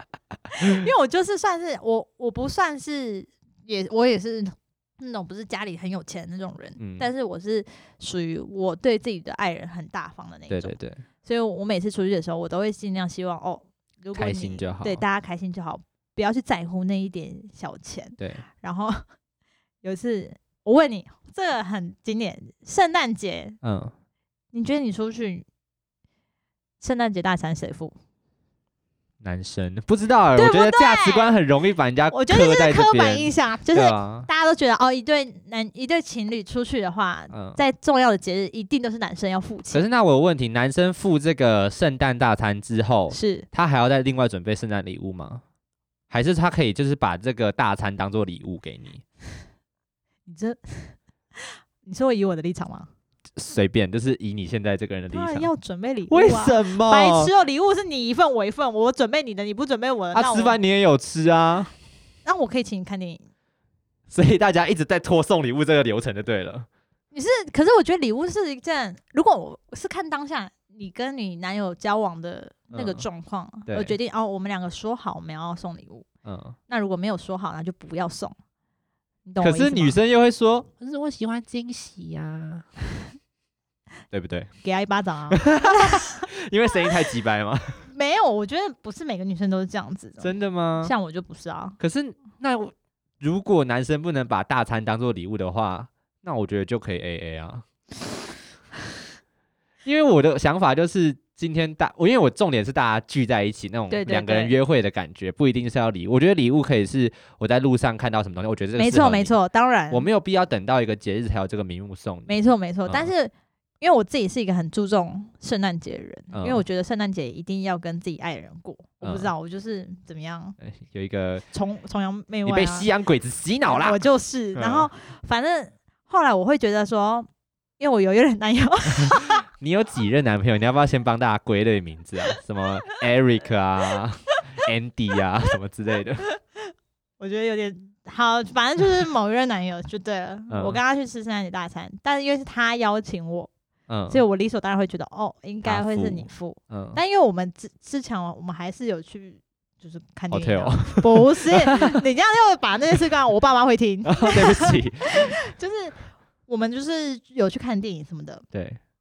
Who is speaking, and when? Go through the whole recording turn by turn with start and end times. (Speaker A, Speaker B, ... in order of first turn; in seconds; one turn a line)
Speaker A: 0.5-19.0
Speaker B: 6.8-7.1
Speaker B: 10.5-11.0
Speaker B: 14.1-15.0
Speaker B: 18.2-18.5
Speaker A: 19.8-23.6
Speaker B: 23.6-23.9
Speaker A: 24.5-25.5
Speaker A: 26.8-28.0
Speaker B: 29.2-34.3
Speaker A: 30.3-31.3
Speaker A: 32.1-39.9
Speaker B: 37.3-37.6
Speaker B: 39.7-45.4
Speaker A: 43.1-43.5
Speaker B: 46.1-49.0
Speaker A: 50.3-52.9
Speaker B: 53.4-55.5
Speaker A: 55.1-60.6
Speaker B: 56.1-57.3
Speaker B: 60.1-61.7
Speaker A: 62.2-63.2
Speaker B: 64.1-66.7
Speaker A: 67.1-76.1
Speaker B: 72.7-73.1
Speaker B: 73.7-74.0
Speaker B: 76.2-76.6
Speaker A: 76.7-78.3
Speaker A: 79.3-80.0
Speaker B: 79.4-82.7
Speaker B: 84.1-84.5
Speaker A: 84.6-86.3
Speaker B: 85.3-87.9
Speaker A: 87.8-91.8
Speaker B: 90.2-90.9
Speaker B: 91.8-97.7
Speaker B: 99.8-109.4
Speaker A: 103.9-104.6
Speaker A: 108.8-110.1
Speaker B: 109.9-113.1
Speaker A: 112.3-120.6
Speaker B: 116.3-116.6
Speaker B: 119.0-119.3
Speaker B: 120.6-121.5
Speaker A: 121.5-122.9
Speaker B: 122.5-124.0
Speaker A: 123.6-127.3
Speaker B: 124.5-124.9
Speaker A: 127.8-129.4
Speaker B: 129.1-136.3
Speaker A: 136.3-136.7
Speaker A: 137.2-143.5
Speaker B: 140.5-140.8
Speaker B: 143.9-144.2
Speaker A: 144.1-158.4
Speaker B: 145.6-147.0
Speaker B: 150.3-151.9
Speaker B: 154.1-155.3
Speaker B: 158.5-158.8